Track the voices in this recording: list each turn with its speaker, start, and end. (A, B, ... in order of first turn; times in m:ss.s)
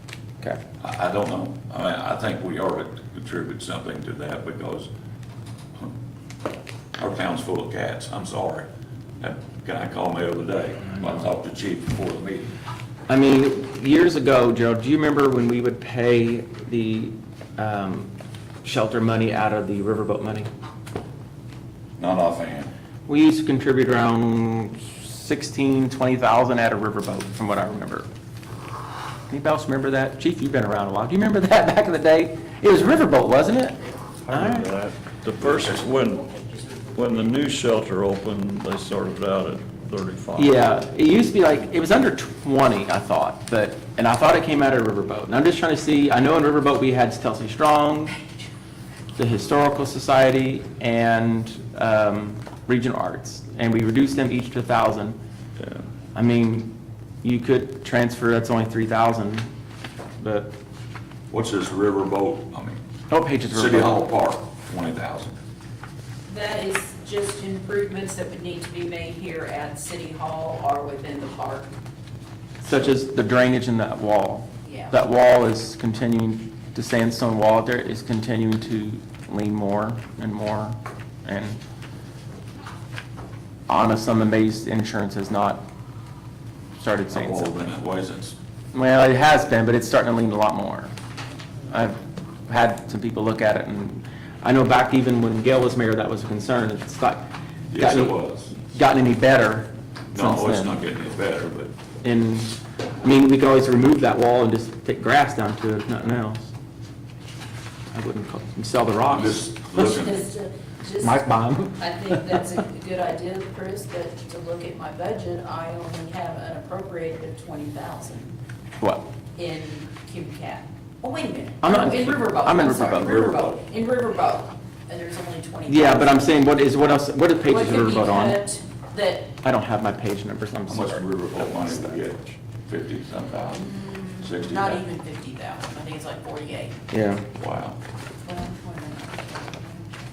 0:00.8-0:04.9 A
0:07.0-0:08.7 A
0:09.2-0:12.5 A
0:13.1-0:18.1 B
0:18.6-0:20.5 B
0:22.0-0:22.7 A
0:23.1-0:28.1 B
0:29.3-0:34.7 B
0:34.2-0:36.3 C
0:35.4-0:35.9 A
0:36.9-0:40.6 C
0:40.4-0:48.2 B
0:49.2-0:55.2 B
0:56.1-0:59.5 B
1:00.2-1:00.5 B
1:01.3-1:02.8 A
1:03.1-1:04.0 B
1:03.5-1:05.4 A
1:06.3-1:11.7 D
1:12.6-1:21.6 B
1:14.6-1:15.0 D
1:23.7-1:25.6 B
1:26.8-1:27.6 B
1:27.1-1:28.4 A
1:28.7-1:30.9 B
1:31.7-1:40.8 B
1:37.7-1:38.6 A
1:40.1-1:41.7 A
1:42.0-1:46.5 B
1:47.9-1:49.4 B
1:49.1-1:50.2 A
1:49.7-1:58.4 D
1:51.0-1:52.2 B
1:58.8-1:59.1 B
1:59.4-2:06.4 D
2:01.6-2:03.3 B
2:02.7-2:03.6 A
2:05.7-2:08.4 B
2:07.4-2:09.3 D
2:09.4-2:12.0 B
2:10.7-2:14.8 A
2:13.6-2:16.8 D
2:16.9-2:17.3 B
2:17.4-2:17.8 A
2:18.2-2:19.9 D